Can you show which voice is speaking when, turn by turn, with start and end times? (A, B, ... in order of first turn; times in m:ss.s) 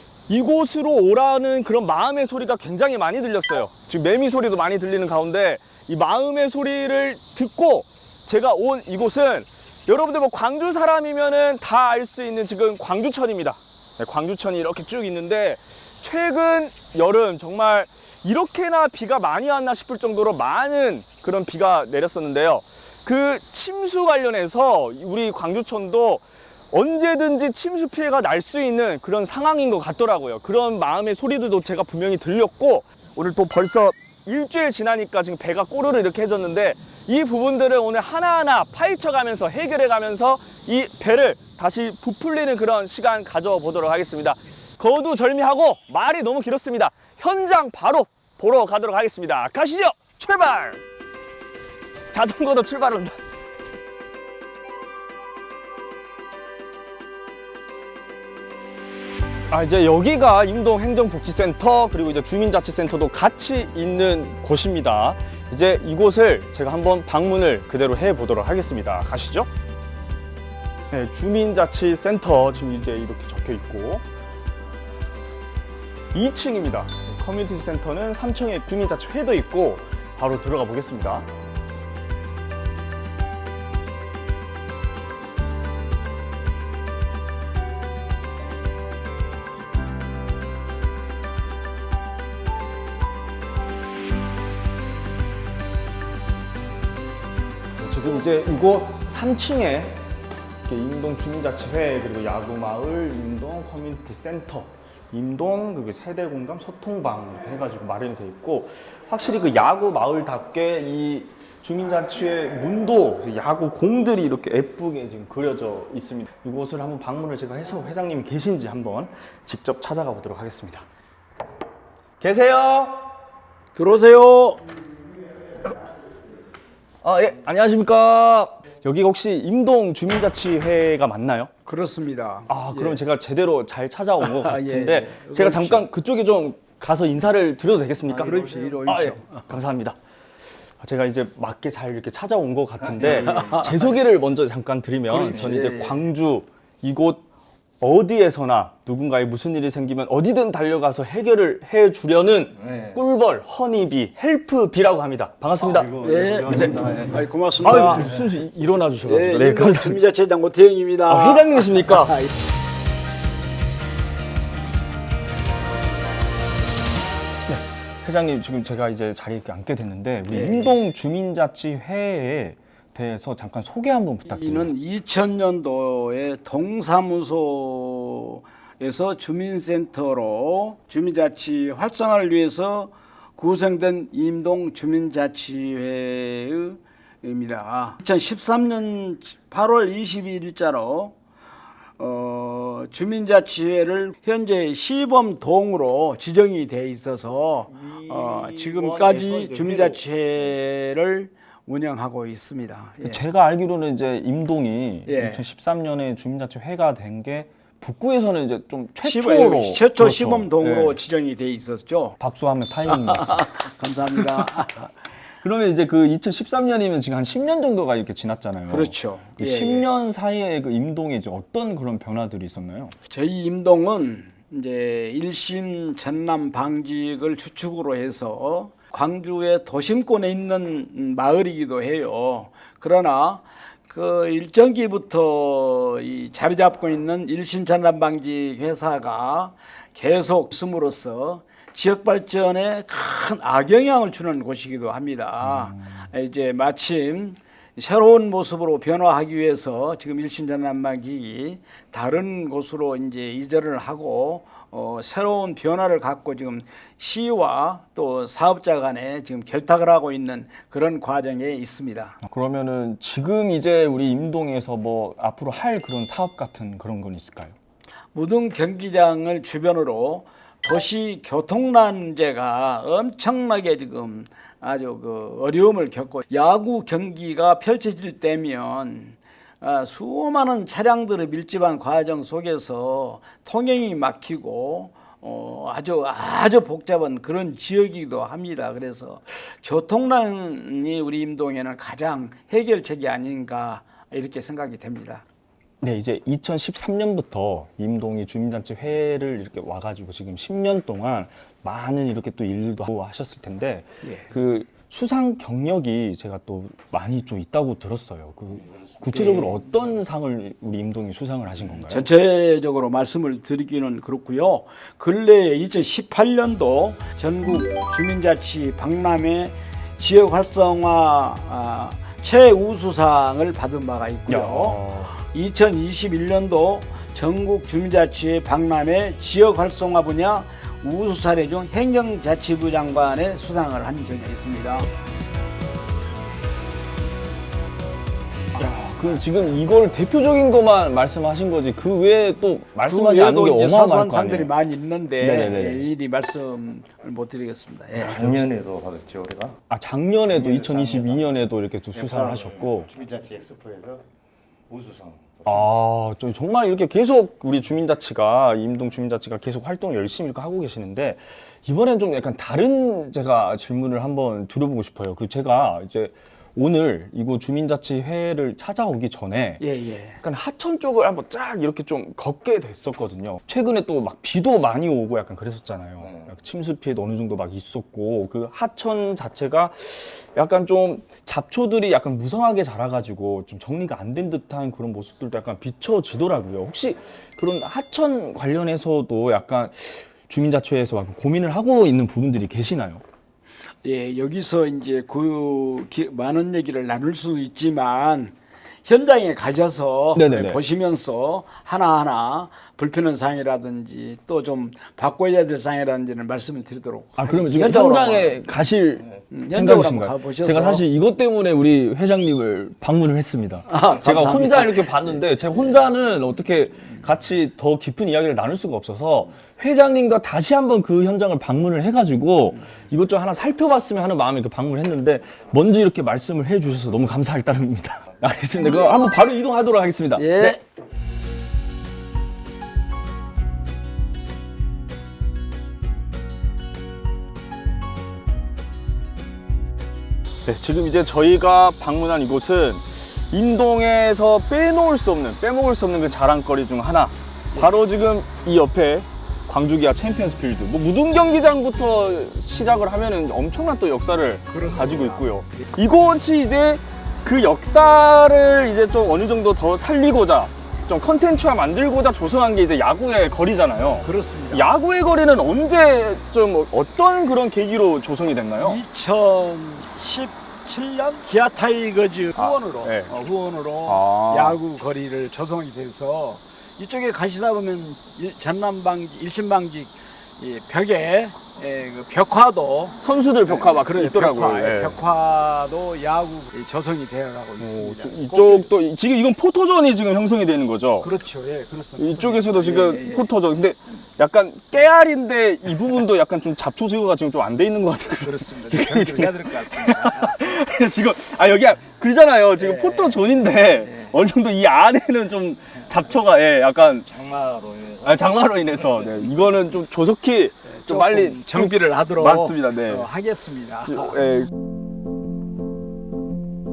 0:00.3-0:50.8 A
0:52.1-0:53.2 A
0:59.5-1:09.5 A
1:10.9-1:14.0 A
1:16.1-1:21.3 A
1:37.8-1:40.0 A
1:40.7-2:00.8 A
2:02.2-2:03.1 A
2:03.8-2:04.6 B
2:07.0-2:11.5 A
2:11.7-2:13.0 B
2:12.5-2:20.0 A
2:14.3-2:15.8 B
2:18.1-2:19.4 B
2:20.8-2:27.2 A
2:23.0-2:23.8 B
2:23.3-2:23.6 C
2:25.1-2:26.1 B
2:25.4-2:25.6 C
2:27.8-2:36.0 A
2:32.7-2:33.0 C
2:35.8-2:37.2 C
2:36.0-2:38.1 B
2:37.6-2:40.0 A
2:39.0-2:42.3 B
2:41.1-2:42.2 A
2:47.5-2:54.7 A
2:50.3-2:50.7 B
2:54.3-3:11.1 B
3:12.0-3:23.2 B
3:17.7-3:20.0 A
3:23.0-3:31.0 A
3:25.1-3:25.4 B
3:29.0-3:32.2 B
3:32.2-3:33.5 A
3:32.9-3:34.9 B
3:34.4-3:34.6 A
3:35.4-3:43.0 A
3:38.7-3:39.8 B
3:43.1-4:22.2 B
4:05.5-4:05.9 A
4:22.2-4:27.6 A
4:28.1-4:55.2 B
4:55.8-5:12.1 A
5:09.2-5:09.4 B
5:11.9-5:34.9 B
5:24.3-5:25.1 A
5:38.5-5:44.5 A
5:42.8-5:48.3 B
5:45.2-5:45.9 A
5:48.0-5:49.6 C
5:49.7-5:52.9 A
5:50.3-5:51.3 C
5:51.9-5:54.0 C
5:54.7-5:55.7 C
5:55.4-6:09.6 A
6:09.6-6:10.2 B
6:10.2-6:33.0 A
6:33.8-6:38.3 B
6:38.9-6:48.4 B
6:40.1-6:40.6 A
6:47.2-7:10.6 A
6:49.3-6:50.8 B
6:53.7-6:55.0 B
7:10.2-7:10.6 B
7:20.5-7:48.8 A
7:34.5-7:35.4 B
7:44.0-7:44.7 B
7:48.6-8:08.7 B
7:52.4-7:53.1 A
7:53.9-7:54.6 A
8:03.0-8:05.0 A
8:07.6-8:11.1 A
8:11.0-8:13.3 B
8:12.0-8:27.1 A
8:18.2-8:20.4 B
8:22.6-8:23.2 B
8:23.9-8:24.1 B
8:27.0-8:28.2 C
8:28.0-8:33.1 A
8:30.7-8:34.2 B
8:33.9-8:34.5 A